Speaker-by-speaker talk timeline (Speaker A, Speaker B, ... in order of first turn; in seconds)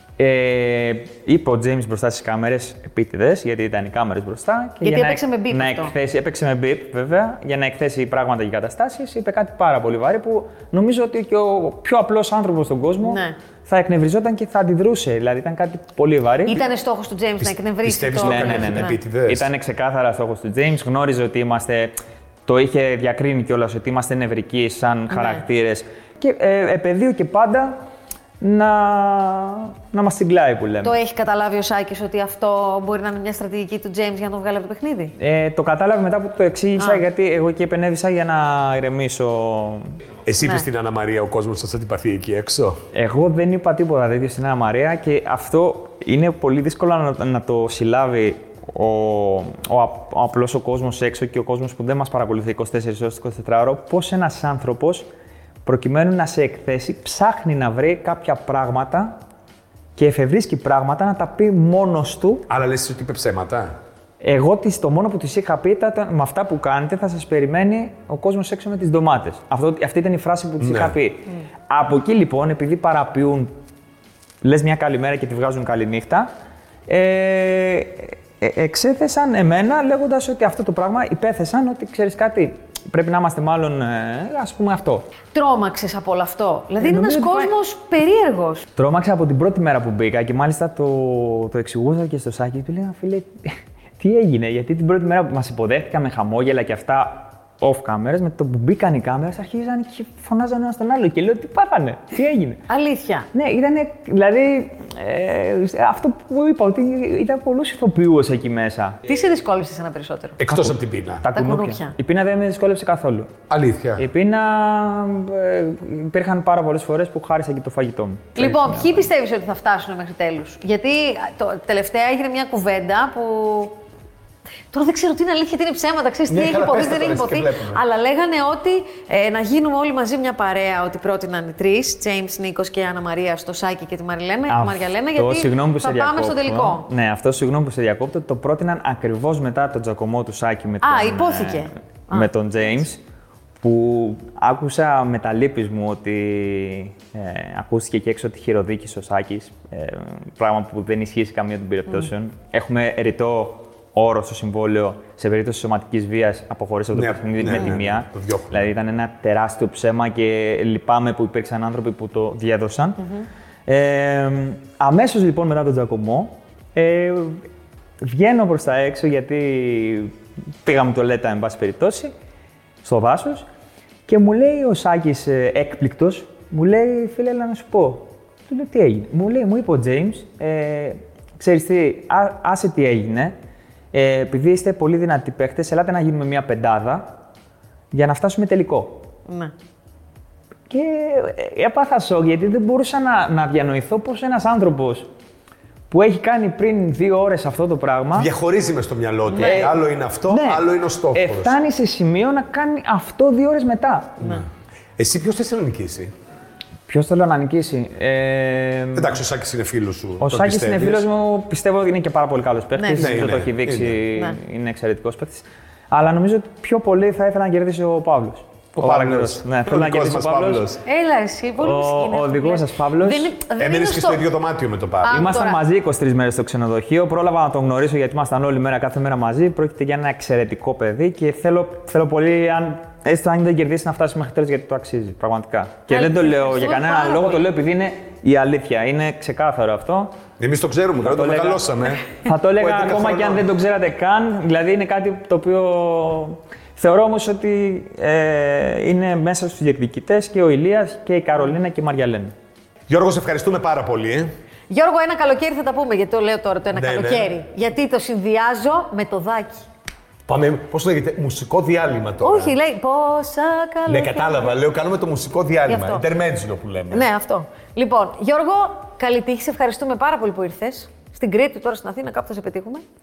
Speaker A: 0.2-16.6, 18.1-21.9, 22.5-27.7, 28.4-31.0, 35.2-39.8, 42.9-55.1, 55.6-59.2, 60.0-62.5, 64.2-73.5, 74.4-76.3, 76.9-85.1, 86.8-87.5, 88.8-102.6, 103.3-109.0, 110.5-113.3, 114.0-119.1, 134.5-143.0, 143.6-163.0, 163.7-167.4, 168.0-172.1, 172.8-173.4, 174.1-183.3, 183.9-187.1, 187.9-189.1, 190.7-195.1, 195.9-198.3, 199.4-204.3, 206.9-209.2, 210.2-220.7, 221.6-223.3, 225.1-240.1, 241.1-252.3
Speaker B: 4.8-5.9, 13.0-13.3, 16.4-18.9, 25.1-25.4, 30.8-35.1, 36.8-37.0, 85.3-88.7, 102.7-103.3, 109.0-110.4, 111.3-111.9, 118.4-123.8, 124.7-136.9, 140.8-142.3, 189.2-189.5, 199.3-199.7, 212.8-213.2, 220.8-224.2, 225.0-225.6, 235.9-237.5, 254.7-259.7, 262.2-264.5, 265.7-266.0, 266.9-272.8
Speaker C: 17.4-19.5, 40.2-42.8, 62.5-63.8, 70.6-71.0, 110.4-111.2, 113.5-114.0, 126.3-127.8, 156.9-158.6, 198.1-201.5, 205.0-206.1, 208.9-211.1, 212.9-214.0, 218.8-220.8, 223.6-225.3, 240.4-243.5, 252.9-254.3, 256.7-257.3, 260.3-262.6, 263.9-267.0